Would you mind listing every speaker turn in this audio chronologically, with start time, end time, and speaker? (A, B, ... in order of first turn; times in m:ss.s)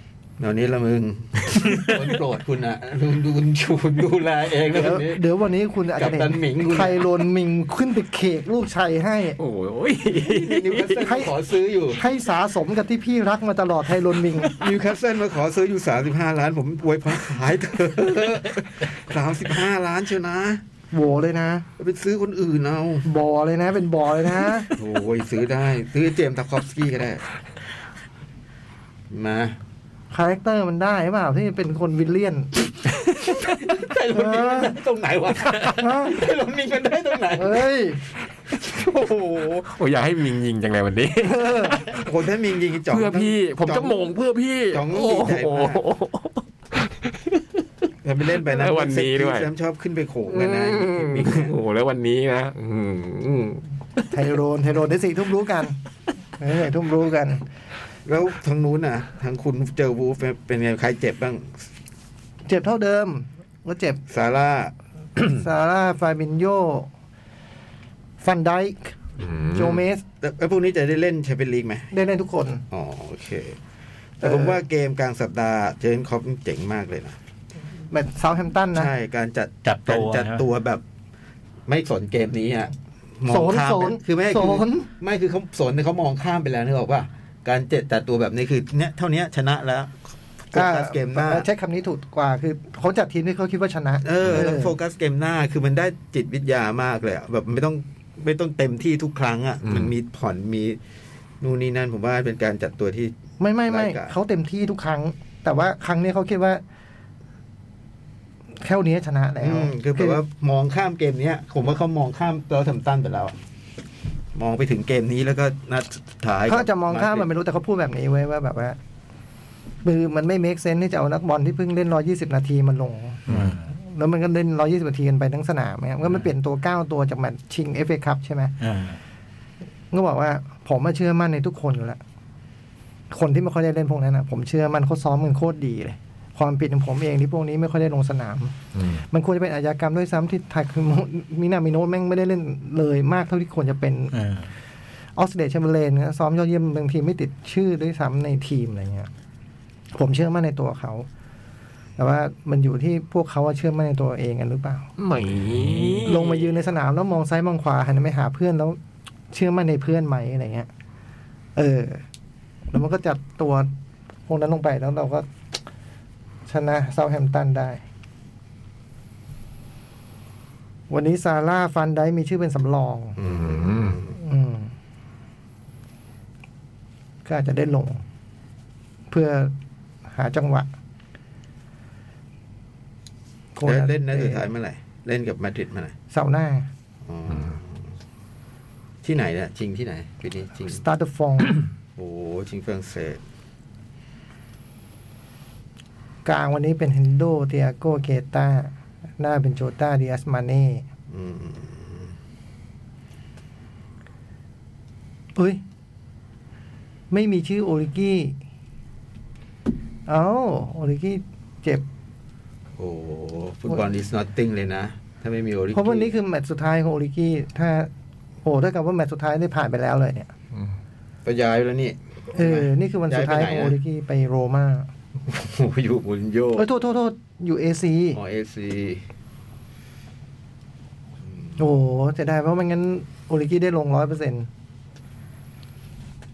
0:00.4-0:05.2 A
0:04.7-0:09.4 B
0:06.0-0:07.1 A
0:09.4-0:11.1 C
0:10.1-0:12.0 A
0:11.0-0:11.3 B
0:11.9-0:14.6 B
0:14.5-0:20.6 A
0:20.9-0:21.6 B
0:21.8-0:23.0 A
0:23.0-0:24.7 B
0:24.7-0:27.2 A
0:29.1-0:29.6 A
0:30.1-0:32.5 B
0:33.4-0:37.7 A
0:34.1-0:34.8 B
0:35.8-0:36.3 B
0:37.4-0:38.0 B
0:38.5-0:39.6 A
0:39.4-0:42.0 C
0:41.2-0:41.8 B
0:41.8-0:44.0 A
0:42.9-0:47.4 C
0:44.7-0:45.8 A
0:48.0-0:51.5 A
0:48.4-0:49.5 C
0:50.3-0:53.6 C
0:54.1-0:55.8 B
0:56.4-0:57.4 B
0:58.0-1:01.6 A
1:02.4-1:04.0 B
1:04.1-1:05.4 A
1:05.2-1:06.9 B
1:08.2-1:09.0 B
1:09.2-1:09.8 C
1:09.5-1:10.0 B
1:10.2-1:11.9 A
1:11.9-1:12.6 B
1:12.7-1:13.6 A
1:14.2-1:17.2 A
1:14.2-1:14.6 B
1:17.9-1:18.9 B
1:18.7-1:20.8 A
1:19.6-1:20.4 D
1:21.7-1:30.0 A
1:23.3-1:24.9 B
1:30.5-1:31.5 A
1:30.5-1:34.8 B
1:34.0-1:40.8 A
1:39.6-1:39.9 C
1:41.4-1:43.2 A
1:43.4-1:46.6 B
1:43.7-1:44.1 A
1:48.6-1:50.2 B
1:49.4-1:53.4 A
1:54.3-1:57.3 A
1:56.5-1:58.8 B
1:59.8-2:08.5 B
2:03.3-2:03.5 C
2:03.3-2:03.7 D
2:08.6-2:09.0 D
2:09.9-2:12.0 B
2:13.1-2:18.5 B
2:18.8-2:19.0 C
2:19.1-2:24.1 B
2:24.1-2:24.5 D
2:25.2-2:29.1 B
2:29.9-2:31.1 B
2:32.0-2:34.8 B
2:35.0-2:36.4 C
2:36.0-2:38.8 B
2:39.3-2:40.7 B
2:41.6-2:42.0 B
2:42.7-2:43.7 B
2:44.3-2:45.3 B
2:46.5-2:47.8 B
2:50.9-2:53.2 B
2:53.2-2:54.1 A
2:53.3-2:54.0 C
2:54.1-2:54.7 B
2:57.2-2:58.0 B
2:59.1-2:59.5 B
3:00.1-3:00.7 B
3:03.6-3:04.5 B
3:03.6-3:05.9 A
3:06.1-3:06.7 B
3:07.0-3:07.9 A
3:09.0-3:10.8 A
3:10.7-3:11.6 B
3:12.0-3:13.2 A
3:16.2-3:20.9 B
3:21.1-3:22.1 A
3:25.4-3:25.6 B
3:27.1-3:28.4 B
3:30.1-3:31.8 B
3:32.8-3:36.1 A
3:35.7-3:37.9 B
3:38.4-3:40.3 B
3:41.2-3:43.8 A
3:42.3-3:44.9 B
3:45.3-3:46.6 A
3:46.6-3:48.2 B
3:48.1-3:49.0 A
3:51.6-3:54.5 B